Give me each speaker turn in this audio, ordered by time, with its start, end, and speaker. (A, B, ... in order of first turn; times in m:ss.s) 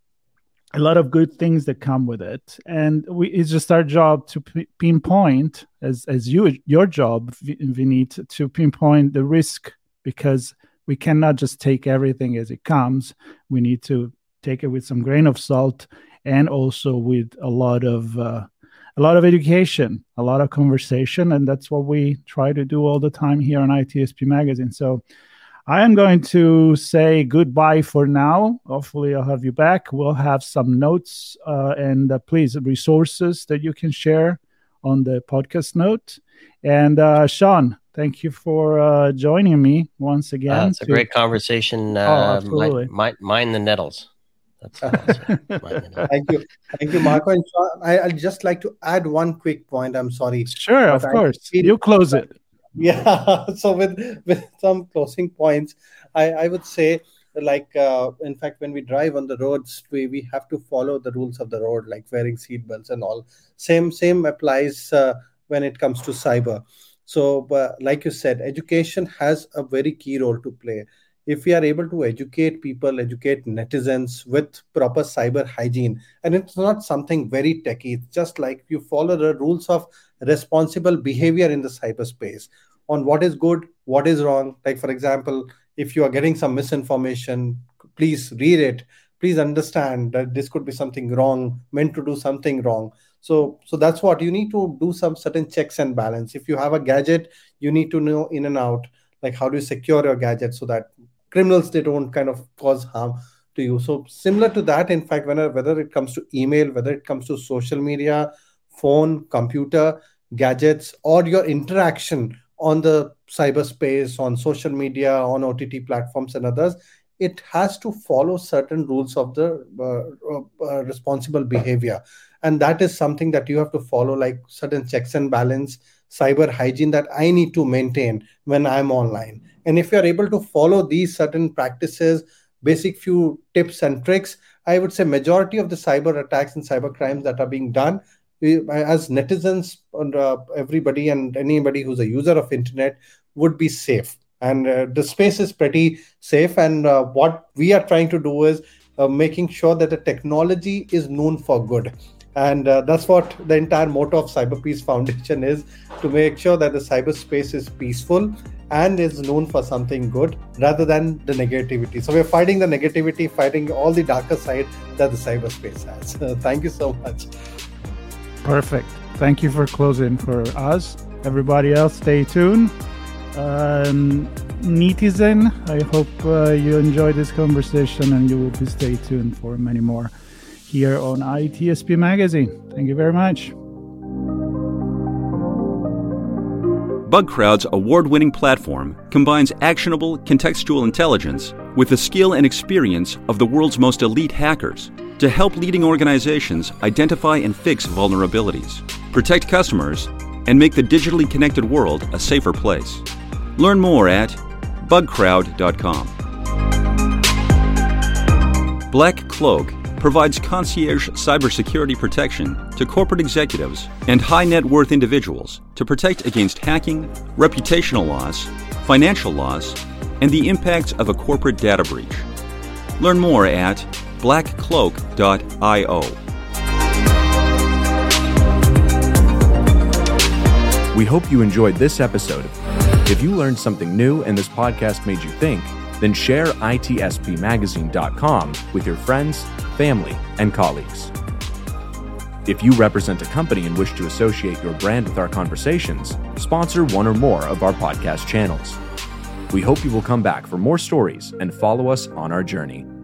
0:00.7-0:25.0 A
0:25.7-0:41.1 A
0:40.5-0:44.1 B
0:42.0-0:42.9 A
0:44.6-0:46.1 B
0:45.1-0:46.1 A
0:46.1-0:52.2 C
0:50.5-0:52.4 A
0:52.8-2:47.3 C
2:48.4-2:52.7 A
2:53.3-3:00.1 A
3:00.7-3:03.6 A
3:07.0-3:26.1 D
3:28.9-3:42.3 D
3:43.0-3:46.2 D
3:50.9-3:52.5 E
3:53.1-4:01.1 E
4:02.4-4:08.8 E
4:09.5-4:12.9 E